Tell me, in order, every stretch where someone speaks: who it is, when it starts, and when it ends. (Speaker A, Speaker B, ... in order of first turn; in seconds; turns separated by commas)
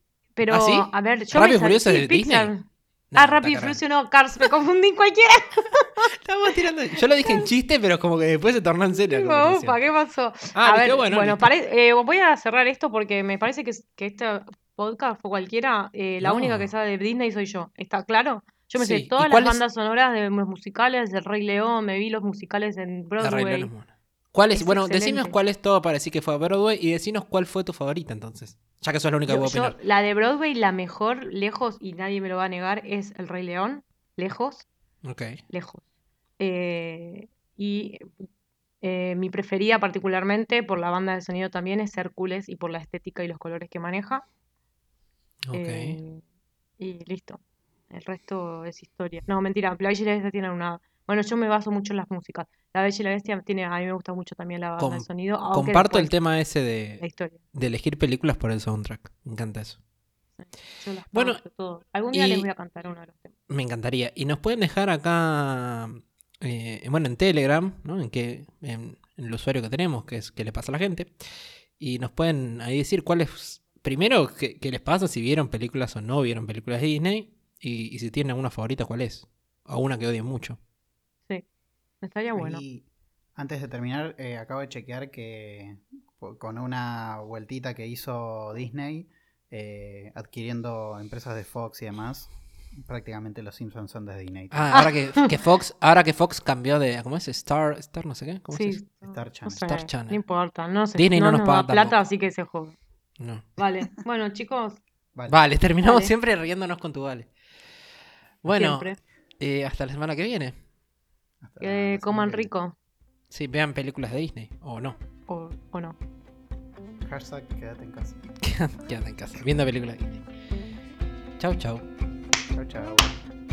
Speaker A: 0.3-2.6, Speaker B: 0.5-2.5, Speaker B: 3.1-3.8, Speaker A: 3.1-5.8, Speaker B: 6.0-9.8, Speaker A: 9.1-23.7, Speaker B: 10.5-11.5, Speaker B: 16.2-16.7, Speaker B: 18.8-19.6, Speaker B: 23.2-29.8, Speaker A: 24.5-25.3, Speaker A: 29.3-34.6, Speaker B: 35.0-35.4, Speaker A: 35.5-35.8, Speaker A: 36.4-38.3, Speaker A: 38.8-44.2, Speaker B: 45.5-46.0, Speaker A: 45.5-46.2, Speaker A: 46.8-56.1, Speaker B: 54.8-57.0, Speaker A: 57.0-57.4, Speaker B: 57.5-59.8, Speaker A: 60.4-63.3, Speaker B: 61.1-61.4, Speaker B: 62.1-62.5, Speaker B: 63.5-80.6, Speaker A: 82.0-82.6, Speaker C: 82.3-94.9, Speaker B: 94.5-98.8, Speaker A: 94.7-95.2, Speaker A: 98.5-102.8, Speaker C: 99.0-99.6, Speaker B: 99.5-100.2, Speaker B: 100.9-102.0, Speaker B: 103.2-103.5, Speaker A: 103.6-104.8, Speaker C: 105.1-105.4, Speaker B: 105.3-107.3, Speaker A: 105.8-106.1, Speaker B: 108.4-110.5, Speaker A: 108.5-109.0, Speaker C: 111.4-112.5, Speaker A: 111.6-112.7, Speaker B: 113.3-115.0, Speaker A: 115.3-116.0, Speaker C: 117.0-118.3, Speaker B: 118.4-120.2, Speaker B: 121.4-121.8, Speaker C: 122.5-123.1